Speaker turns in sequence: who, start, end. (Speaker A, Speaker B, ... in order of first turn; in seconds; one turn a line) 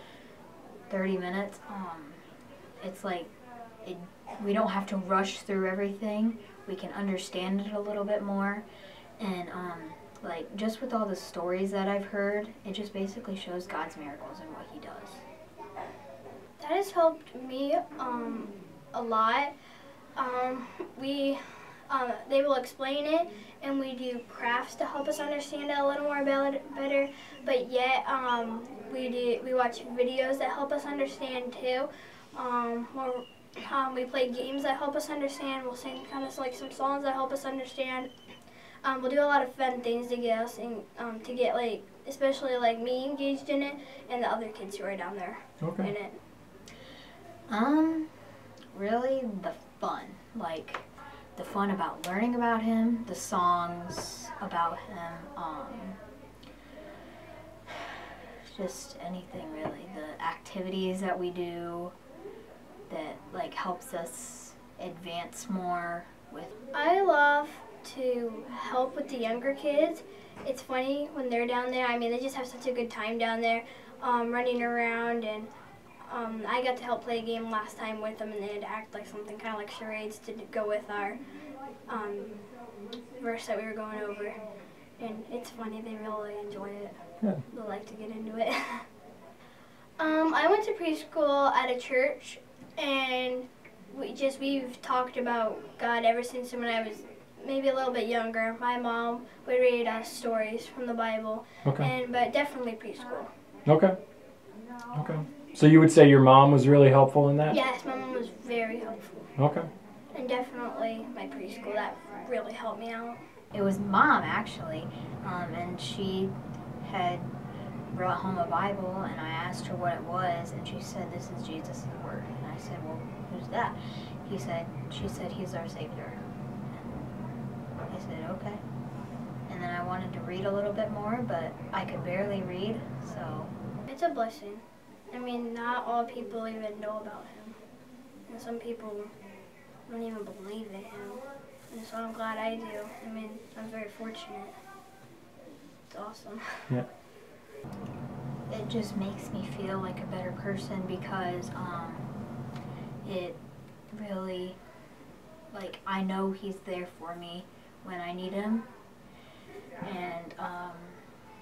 Speaker A: 0.9-2.2
Speaker A: 2.8-3.3
Speaker A: 3.8-8.6
Speaker A: 9.2-15.2
Speaker B: 16.6-19.5
Speaker B: 20.2-38.1
Speaker B: 38.8-46.2
Speaker C: 45.6-45.9
Speaker A: 47.5-48.1
Speaker A: 48.7-56.0
Speaker A: 58.4-61.9
Speaker A: 62.9-66.5
Speaker B: 66.7-75.5
Speaker B: 76.0-81.2
Speaker B: 81.9-82.4
Speaker B: 83.2-84.4
Speaker B: 85.0-88.8
Speaker B: 90.0-103.3
Speaker C: 103.7-104.0
Speaker C: 104.9-107.5
Speaker B: 107.5-109.3
Speaker C: 109.4-109.7
Speaker B: 110.1-113.2
Speaker A: 113.5-117.3
Speaker A: 117.9-127.1
Speaker A: 127.9-128.6
Speaker A: 129.5-133.5
Speaker B: 133.9-137.6
Speaker B: 138.3-139.1
Speaker B: 139.9-144.6
Speaker B: 145.9-146.8
Speaker A: 148.5-152.1
Speaker A: 153.0-153.4
Speaker A: 153.9-154.6
Speaker A: 155.5-158.7
Speaker A: 159.8-161.0